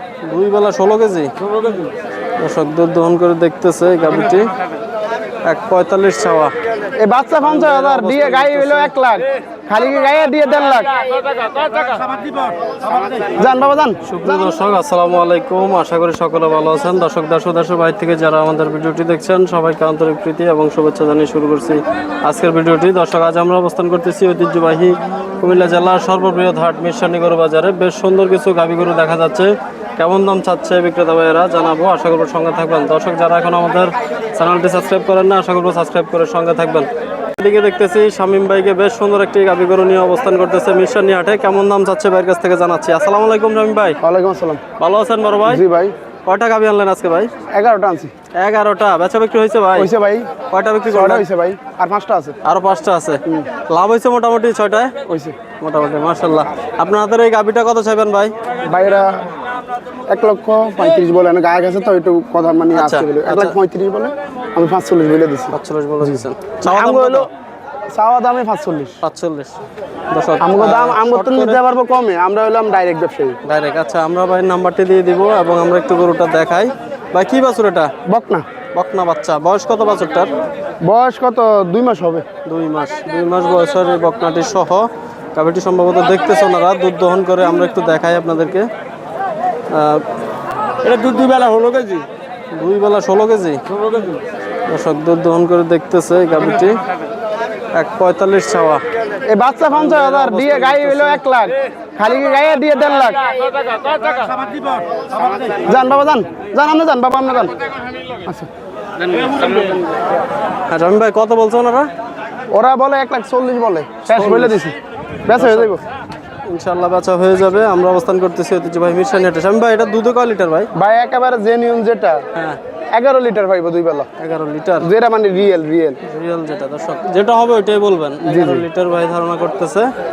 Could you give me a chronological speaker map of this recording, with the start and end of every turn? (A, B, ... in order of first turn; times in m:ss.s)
0:00.2-0:01.3 A
0:01.5-0:01.9 B
0:02.4-0:04.4 A
0:05.5-0:06.5 A
0:07.0-0:11.0 C
0:07.4-0:08.9 A
0:13.3-0:14.5 C
0:14.0-0:44.0 A
0:44.0-0:44.6 C
0:44.8-0:45.6 A
0:45.4-0:45.9 C
0:46.2-0:47.3 A
0:47.5-0:48.1 C
0:48.4-0:49.9 A
0:49.8-0:50.3 C
0:50.5-0:51.2 A
0:50.9-0:52.4 C
0:52.4-0:54.9 A
0:55.1-0:55.4 C
0:55.6-0:58.3 A
0:58.7-0:59.2 C
1:00.1-1:07.3 C
1:02.7-1:03.5 A
1:05.5-1:07.3 A
1:07.9-1:09.0 C
1:09.0-1:09.6 A
1:10.1-1:11.6 A
1:10.4-1:13.4 C
1:13.4-1:17.9 A
1:18.1-1:18.4 C
1:18.7-1:20.3 A
1:20.8-1:22.2 C
1:22.4-1:28.6 A
1:29.7-1:30.0 A
1:30.8-1:32.1 B
1:32.5-1:33.6 A
1:33.8-1:34.2 B
1:34.7-1:36.8 A
1:37.7-1:38.8 A
1:39.2-1:43.4 C
1:39.6-1:41.2 A
1:45.2-1:45.4 B
1:45.6-1:47.5 C
1:50.7-1:51.9 A
1:52.5-1:54.7 C
1:54.1-1:54.6 A
1:55.2-1:55.8 C
1:55.3-1:55.8 A
1:56.5-2:00.7 A
2:00.7-2:02.2 C
2:02.9-2:04.1 C
2:04.2-2:04.9 A
2:04.8-2:06.0 C
2:06.0-2:09.9 A
2:08.2-2:08.6 C